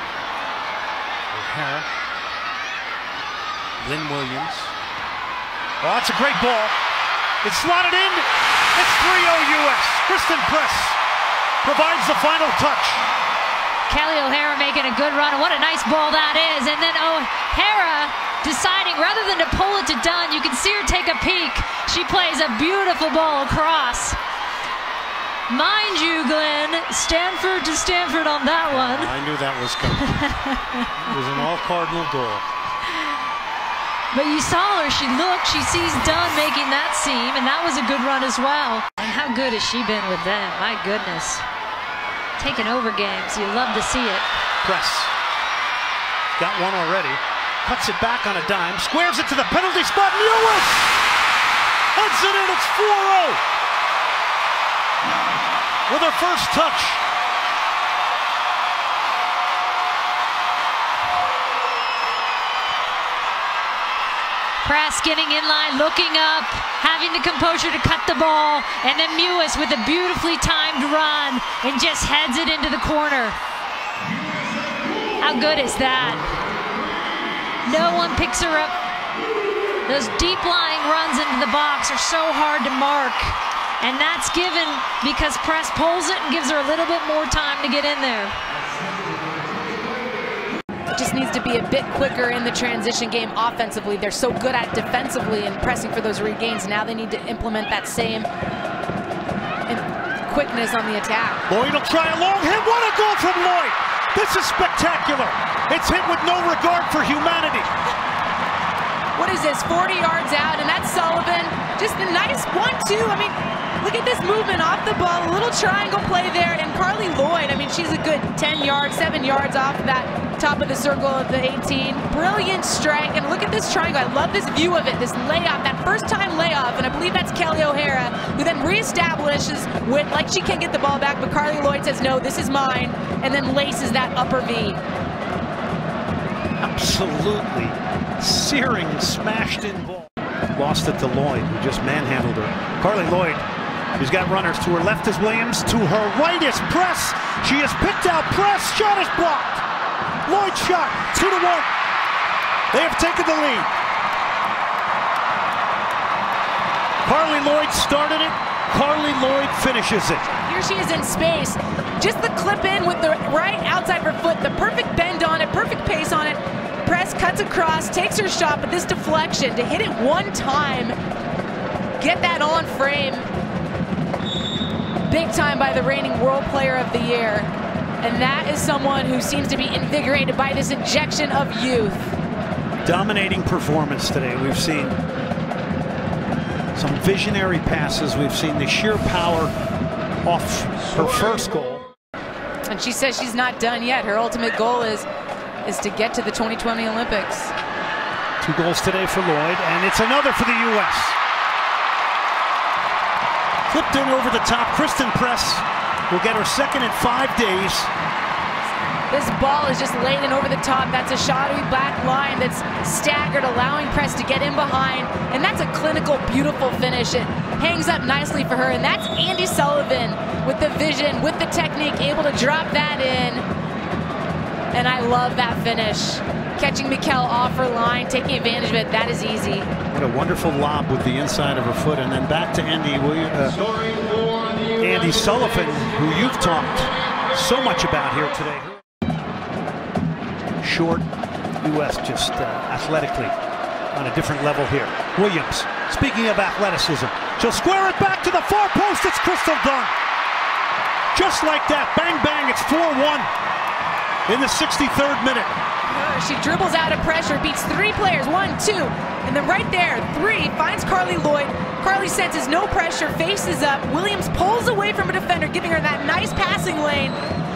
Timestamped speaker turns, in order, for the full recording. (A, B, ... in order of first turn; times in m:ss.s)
0:01.3-0:01.9 A
0:03.8-0:04.7 A
0:05.8-0:06.8 A
0:07.4-0:11.0 A
0:11.6-0:13.1 A
0:13.9-0:24.2 B
0:25.5-0:29.1 B
0:28.7-0:30.1 A
0:30.0-0:30.9 B
0:31.0-0:32.5 A
0:34.1-0:41.4 B
0:42.4-0:44.3 B
0:44.6-0:45.1 A
0:46.4-0:51.0 A
0:51.9-0:53.4 A
0:55.9-0:57.0 A
1:04.6-1:13.4 B
1:15.2-1:16.3 B
1:17.6-1:18.7 B
1:19.9-1:28.4 B
1:30.9-1:38.3 C
1:39.7-1:41.5 C
1:41.5-1:47.7 A
1:49.2-2:14.8 C
2:16.6-2:23.4 A
2:24.0-2:29.6 A
2:30.3-2:31.7 A
2:32.7-2:33.7 A
2:37.0-2:40.3 A
2:40.5-2:51.0 C
2:52.0-2:53.3 C
2:55.1-2:57.5 C
2:58.0-3:02.2 C
3:02.8-3:05.0 A
3:06.8-3:09.5 A
3:10.2-3:11.8 A
3:12.7-3:15.1 C
3:15.6-3:17.5 C
3:18.4-3:21.2 A
3:23.7-3:27.9 A
3:29.1-3:43.4 C
3:44.7-3:49.7 C
3:49.9-3:53.6 A
3:54.8-3:58.8 A
4:00.6-4:01.1 A
4:01.6-4:03.4 A
4:03.9-4:10.0 A
4:11.1-4:13.3 A
4:14.3-4:15.6 A
4:15.9-4:27.2 C